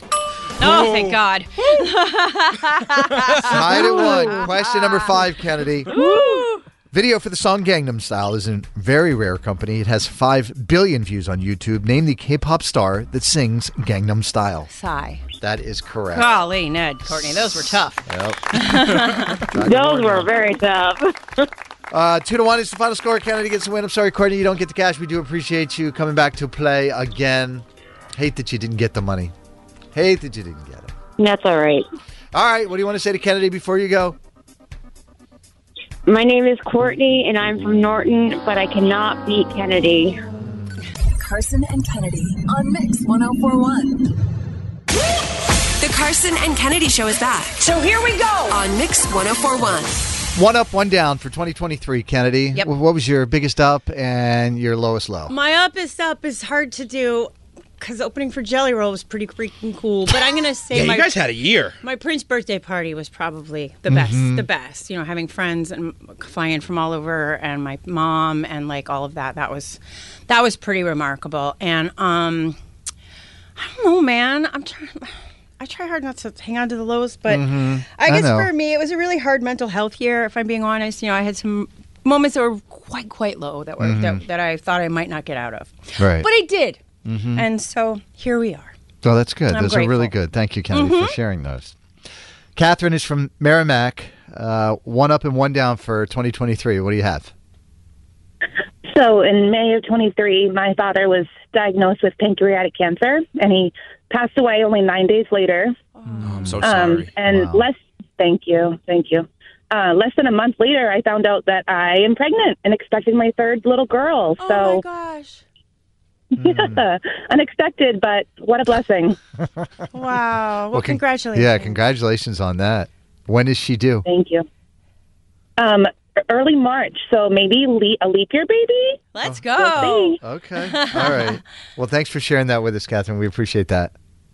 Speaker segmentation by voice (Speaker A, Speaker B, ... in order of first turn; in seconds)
Speaker A: 0.6-5.2, 5.9-6.6, 14.7-15.2, 16.1-19.4, 55.3-61.1, 61.8-72.6, 73.6-86.8, 87.3-88.7, 89.5-90.2, 90.7-91.2, 106.0-106.4, 114.4-115.4, 119.9-121.8, 129.1-131.4
Speaker B: 0.7-1.1, 60.7-61.8, 106.2-107.1
Speaker C: 3.4-5.9, 6.9-14.7, 15.4-16.4, 18.1-20.4, 21.9-29.3, 29.9-30.9, 32.3-34.2, 40.4-40.8, 50.4-55.3, 63.9-64.5, 77.3-78.5, 83.8-84.2, 86.0-86.3, 87.0-87.5, 89.0-91.8, 92.6-97.3, 106.0-106.7, 107.3-107.7, 116.4-116.8, 120.7-124.1, 129.2-129.5, 130.2-133.9
Speaker D: 19.5-21.2, 31.2-31.9, 36.1-40.2, 48.0-48.6
Speaker E: 41.1-44.0
Speaker F: 45.8-47.5, 48.5-49.0
Speaker G: 98.9-105.8, 106.6-114.8, 116.4-119.2, 124.0-124.5, 125.6-129.0, 129.6-130.2